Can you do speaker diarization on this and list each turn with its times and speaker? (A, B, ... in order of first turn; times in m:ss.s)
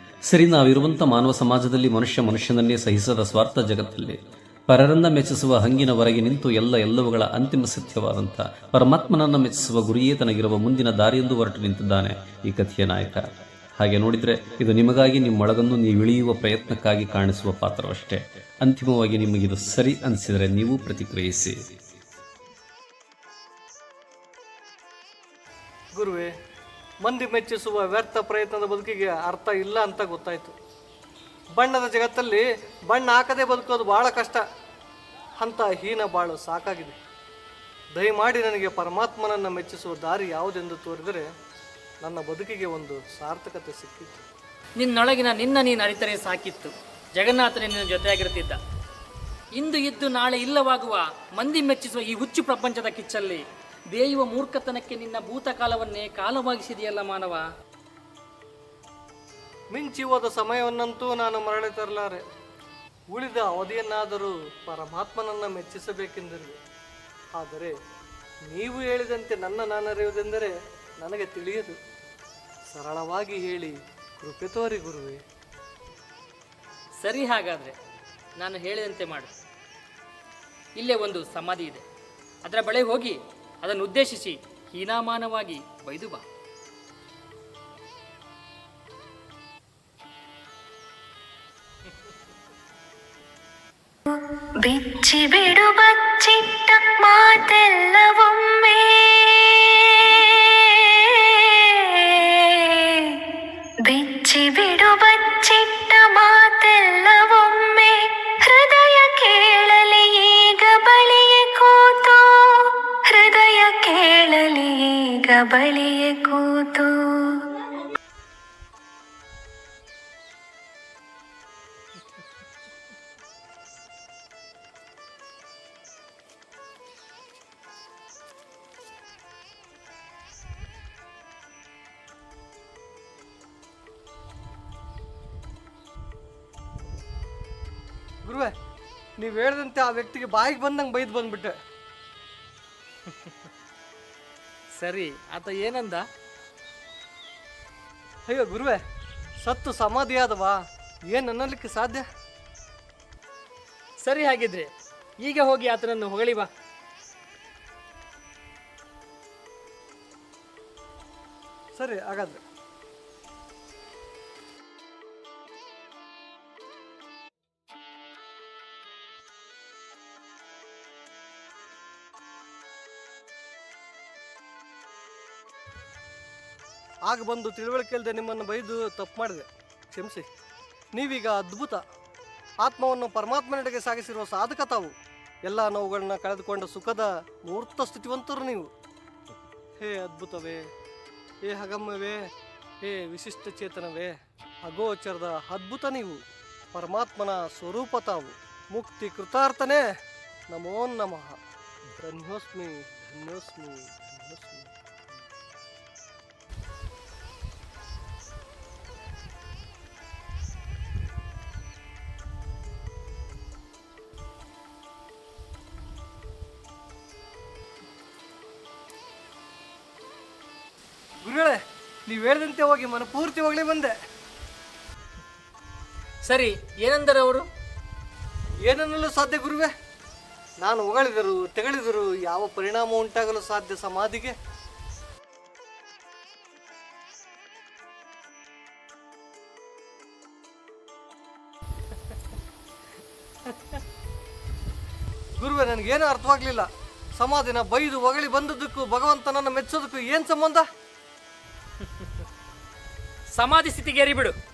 0:00.3-0:21.6 A
0:25.9-0:26.3 B
0:27.0-0:30.5 B
0:31.6-0:34.4 B
0:35.4-0:37.0 B
0:38.0-0:41.3 B
0:42.0-0:44.2 B
0:44.8-0:48.6 C
0:49.6-0:57.5 C
0:59.7-1:02.2 B
1:03.1-1:06.6 B
1:07.3-1:07.7 B
1:08.5-1:11.8 B
1:12.7-1:15.2 B
1:17.0-1:17.8 C
1:18.4-1:19.3 C
1:20.8-1:21.8 C
1:22.4-1:26.2 C
1:34.6-1:43.3 D
1:43.8-1:57.5 D
2:18.2-2:18.5 B
2:19.2-2:21.6 B
2:24.8-2:26.0 C
2:28.3-2:28.8 B
2:29.4-2:32.0 B
2:34.0-2:36.5 C
2:41.8-2:42.4 B
2:57.1-3:00.3 B
3:00.9-3:01.8 B
3:02.6-3:04.9 B
3:05.4-3:08.7 B
3:09.8-3:10.6 B
3:11.4-3:12.2 B
3:12.8-3:16.2 B
3:16.7-3:19.8 B
3:20.5-3:21.4 B
3:22.0-3:24.7 B
3:41.2-3:43.9 B
3:46.3-3:47.5 C
3:48.6-3:49.7 B
3:50.6-3:54.4 B
4:05.4-4:10.7 B
4:13.3-4:14.4 C